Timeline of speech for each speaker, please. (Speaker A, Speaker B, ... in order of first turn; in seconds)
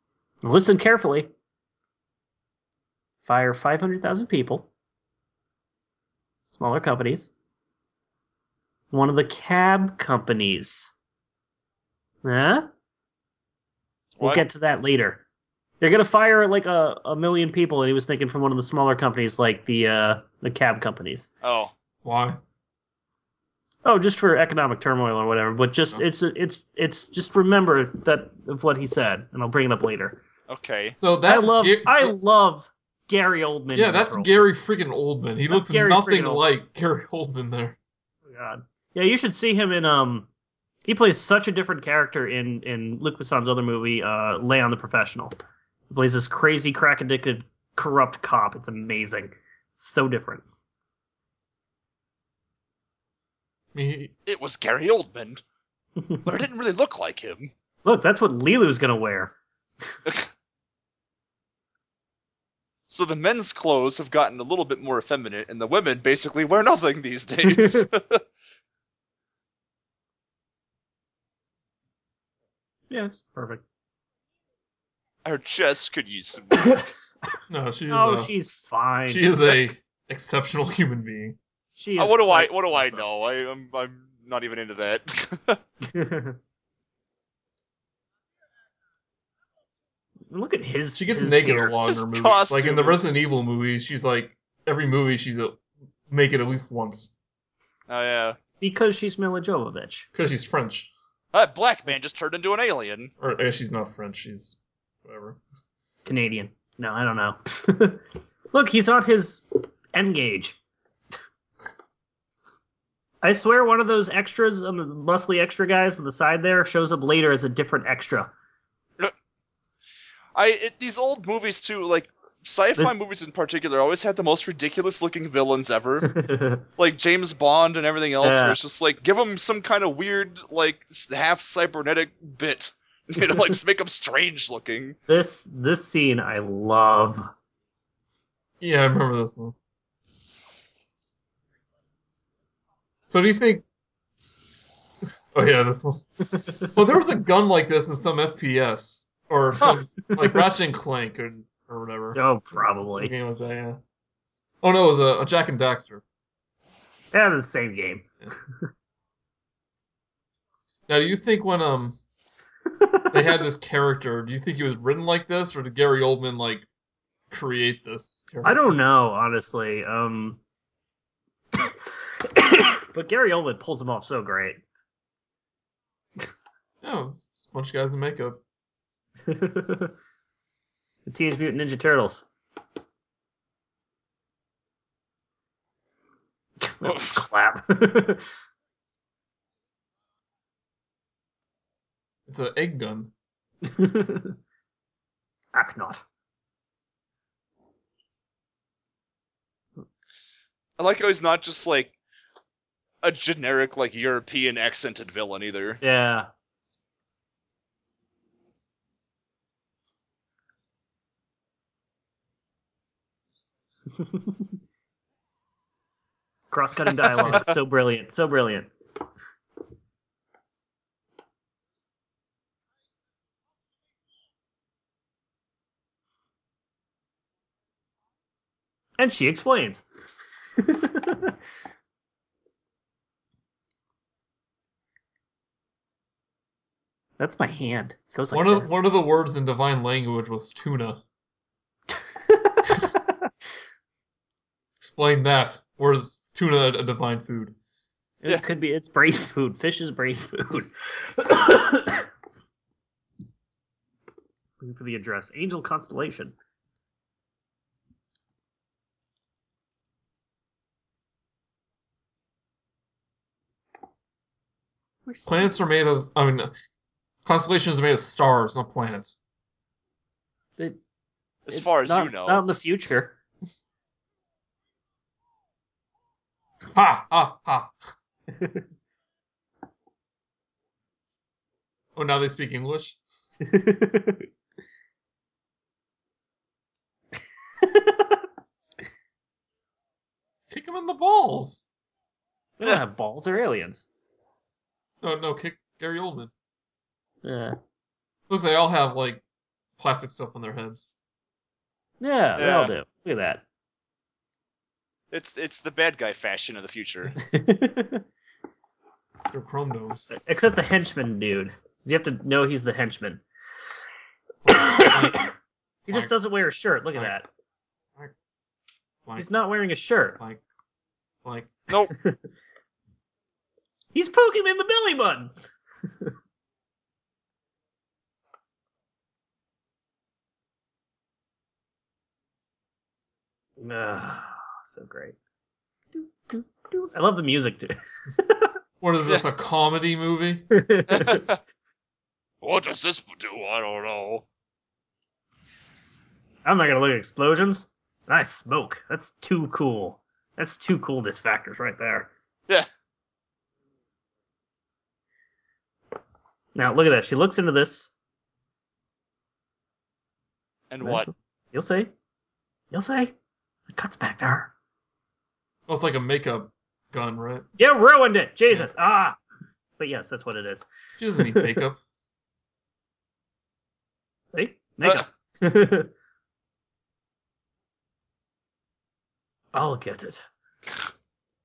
Speaker A: 0.4-1.3, 3.2-4.7, 6.5-7.3, 8.9-10.9, 12.2-12.7, 14.2-15.2, 15.8-21.3, 23.8-30.2, 31.2-34.3, 35.5-36.4, 38.3-40.3, 40.9-45.3, 45.9-50.4, 56.0-56.2, 57.8-59.3, 67.4-67.9, 72.9-73.6, 77.9-79.6, 81.8-83.0, 85.8-86.4, 90.3-91.8, 98.6-100.1, 106.0-110.6, 113.2-118.3, 126.0-126.6, 128.2-128.6, 135.1-137.3, 146.3-146.7, 150.1-150.4, 152.1-153.1, 157.1-158.1, 162.8-163.1, 168.4-170.4, 172.3-174.6, 179.3-179.9, 181.1-182.2, 186.6-188.2, 193.6-194.4, 195.5-196.0, 205.8-206.3, 214.0-214.4, 216.5-218.7, 229.0-229.8, 230.6-231.3, 237.2-238.8, 242.3-242.6, 248.2-252.1, 254.6-256.3, 265.1-265.6, 271.5-273.1, 278.3-278.6, 283.4-284.2, 287.6-288.2, 292.6-293.9, 297.2-297.6, 302.0-303.4, 307.2-308.0, 310.1-313.2, 314.5-315.3, 315.9-317.3, 319.2-320.2, 321.9-322.2, 323.9-325.3, 333.6-335.2, 335.9-338.5, 340.5-341.2, 346.4-352.1, 356.5-357.9, 360.8-361.9, 362.7-363.1, 363.7-364.5, 367.6-369.2, 369.8-370.7, 371.2-371.5, 374.3-375.9, 379.5-380.2
Speaker B: 14.2-14.4, 21.4-21.7, 30.5-31.0, 54.2-55.4, 56.2-57.5, 62.9-68.2, 75.2-76.8, 82.0-85.6, 91.8-93.0, 97.9-98.4, 101.3-103.1, 120.3-126.1, 126.8-135.0, 186.8-187.2, 200.8-201.9, 203.0-205.8, 217.2-217.5, 271.4-272.4, 302.4-302.7, 305.1-307.1, 340.9-341.4, 342.4-344.2, 360.7-361.1
Speaker C: 22.0-22.4, 31.0-32.2, 33.7-37.8, 53.7-54.1, 77.5-78.3, 79.1-81.4, 90.9-97.1, 100.1-100.9, 103.2-105.4, 138.6-139.6, 143.1-143.6, 145.3-146.1, 146.7-153.8, 154.6-156.0, 160.9-162.0, 163.1-166.7, 167.3-168.8, 176.8-178.4, 192.3-193.1, 238.3-241.0, 244.8-247.5, 265.2-266.5, 267.2-269.2, 276.7-277.7, 281.9-283.0, 290.5-291.6, 295.0-296.3, 298.3-299.2, 299.8-300.9, 309.3-310.1, 314.4-315.3, 321.2-321.5, 338.8-340.5, 365.7-367.5, 371.0-371.8